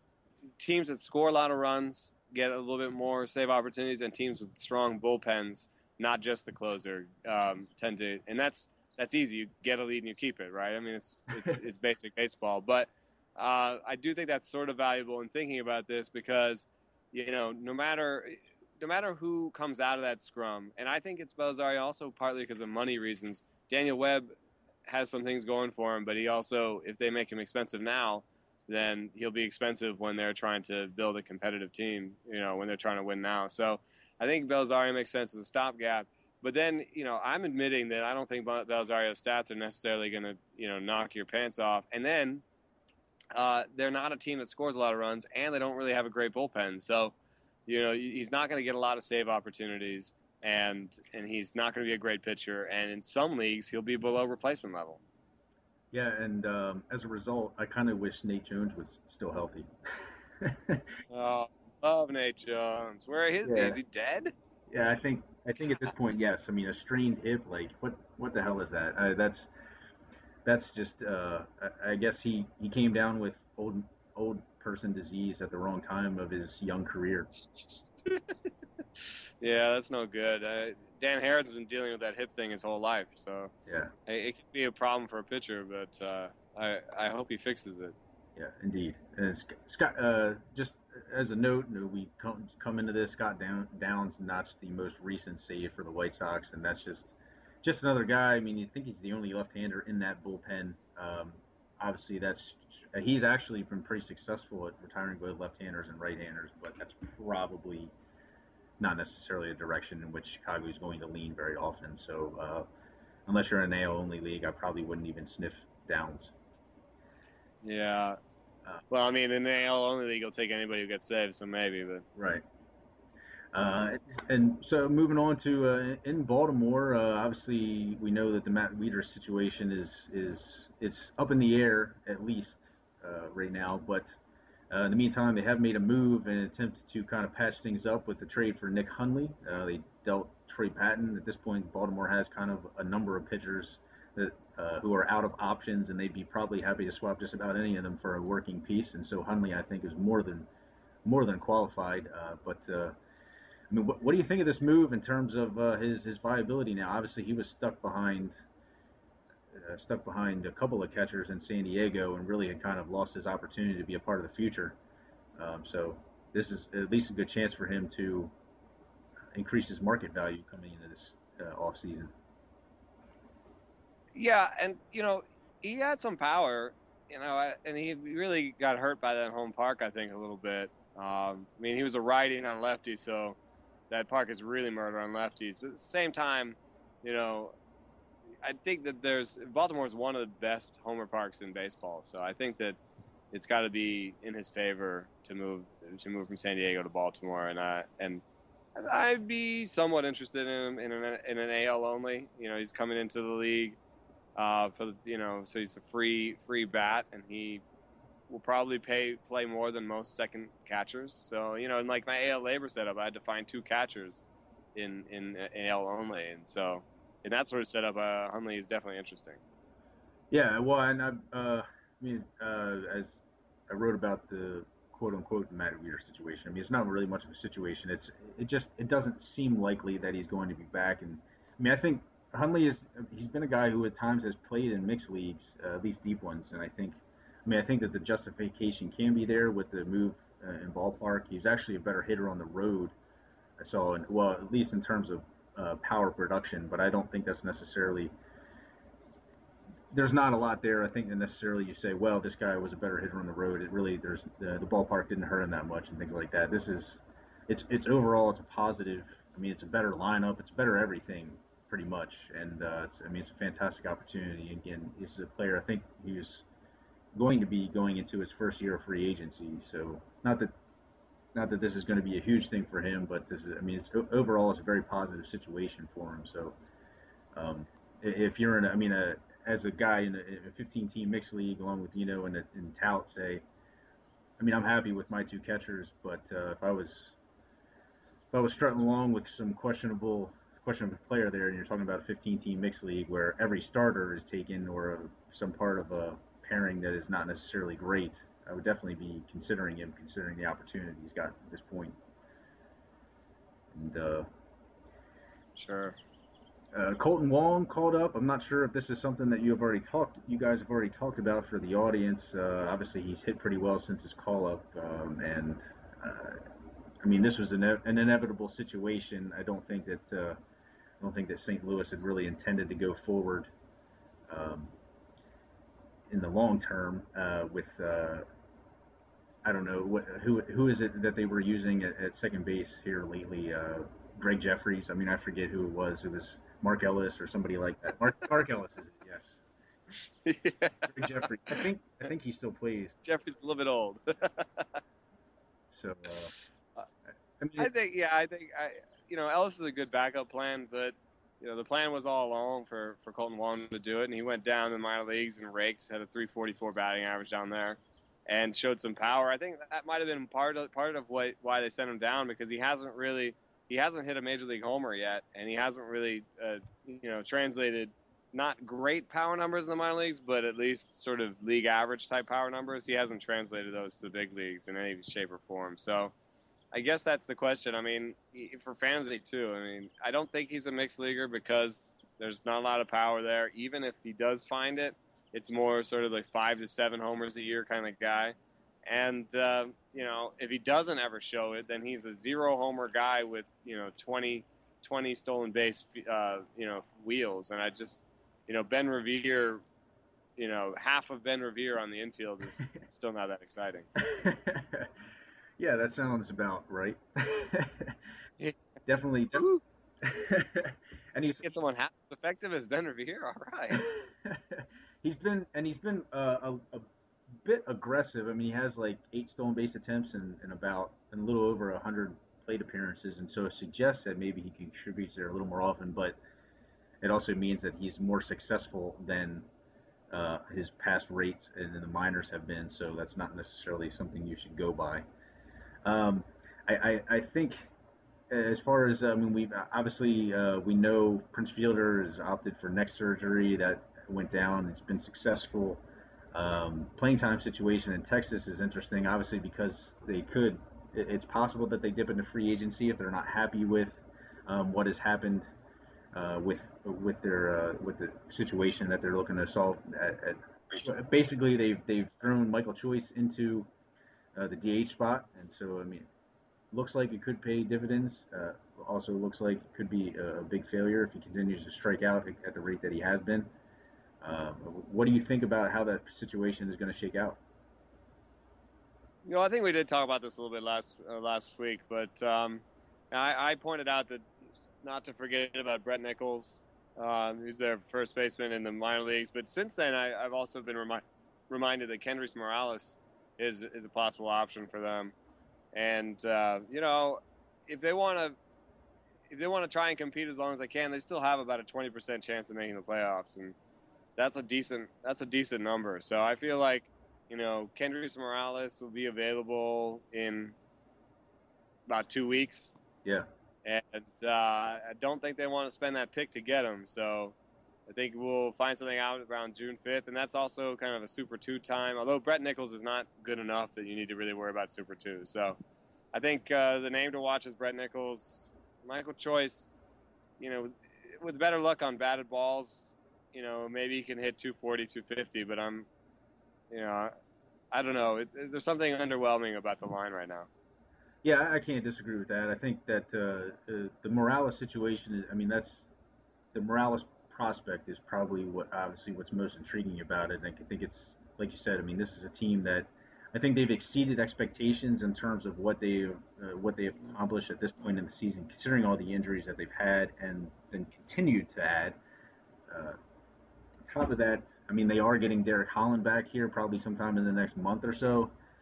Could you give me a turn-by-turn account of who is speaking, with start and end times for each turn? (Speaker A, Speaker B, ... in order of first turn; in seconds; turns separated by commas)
Speaker A: 0.6-24.3, Speaker A: 24.9-42.4, Speaker A: 43.3-47.1, Speaker A: 47.6-55.0, Speaker B: 55.9-59.7, Speaker B: 60.4-61.0, Speaker A: 61.1-64.3, Speaker B: 63.4-63.8, Speaker B: 64.7-69.5, Speaker B: 70.4-77.3, Speaker A: 77.5-78.3, Speaker A: 79.0-83.5, Speaker B: 83.7-83.9, Speaker A: 84.1-87.9, Speaker B: 88.3-107.9, Speaker B: 108.8-112.7, Speaker B: 113.2-116.3, Speaker A: 117.6-118.2, Speaker A: 118.9-122.0, Speaker B: 122.2-122.4, Speaker B: 123.5-134.2, Speaker B: 134.7-150.5, Speaker B: 151.0-152.9, Speaker B: 153.7-158.4, Speaker B: 159.5-164.8, Speaker B: 165.4-168.3, Speaker B: 169.3-172.1, Speaker A: 174.1-183.4, Speaker A: 183.9-187.5, Speaker A: 188.4-192.8, Speaker A: 193.3-198.2, Speaker A: 198.8-203.8, Speaker A: 204.3-207.6, Speaker A: 208.3-214.2, Speaker A: 214.7-219.4, Speaker B: 220.3-242.9, Speaker B: 243.6-248.1, Speaker B: 249.9-266.4, Speaker B: 267.1-270.5, Speaker B: 271.3-276.6, Speaker B: 277.3-283.4, Speaker B: 284.4-287.1, Speaker B: 288.3-302.0, Speaker B: 303.7-304.3, Speaker A: 305.6-306.0, Speaker B: 306.7-316.5, Speaker B: 317.0-320.4, Speaker B: 321.0-323.5, Speaker B: 324.3-324.7, Speaker B: 326.1-328.2, Speaker B: 329.4-339.4, Speaker A: 340.2-341.0, Speaker B: 340.9-343.0, Speaker A: 343.0-344.8, Speaker B: 345.7-346.3, Speaker B: 347.4-347.7, Speaker A: 347.6-376.1, Speaker A: 376.7-399.6, Speaker A: 400.4-403.9, Speaker B: 404.0-404.9, Speaker B: 405.6-408.0, Speaker B: 408.9-409.5, Speaker A: 409.4-409.6, Speaker B: 410.0-411.6, Speaker A: 411.4-413.9, Speaker B: 413.7-416.9, Speaker B: 417.4-426.2, Speaker B: 427.0-429.4, Speaker B: 430.1-435.0, Speaker B: 435.8-437.7, Speaker B: 438.3-445.8, Speaker B: 446.3-455.5, Speaker B: 456.1-463.7, Speaker B: 464.3-466.1, Speaker B: 466.7-473.5, Speaker B: 474.2-477.4, Speaker A: 479.2-484.2, Speaker A: 484.8-495.1, Speaker A: 495.7-498.4, Speaker A: 499.3-503.5, Speaker A: 504.2-510.6, Speaker A: 511.9-512.8, Speaker A: 513.6-517.4, Speaker A: 517.9-525.6, Speaker A: 526.1-529.7, Speaker A: 530.4-535.9, Speaker A: 536.7-537.1, Speaker A: 537.7-540.5, Speaker B: 541.2-545.9, Speaker B: 546.5-562.0, Speaker B: 562.7-563.0, Speaker B: 563.8-568.3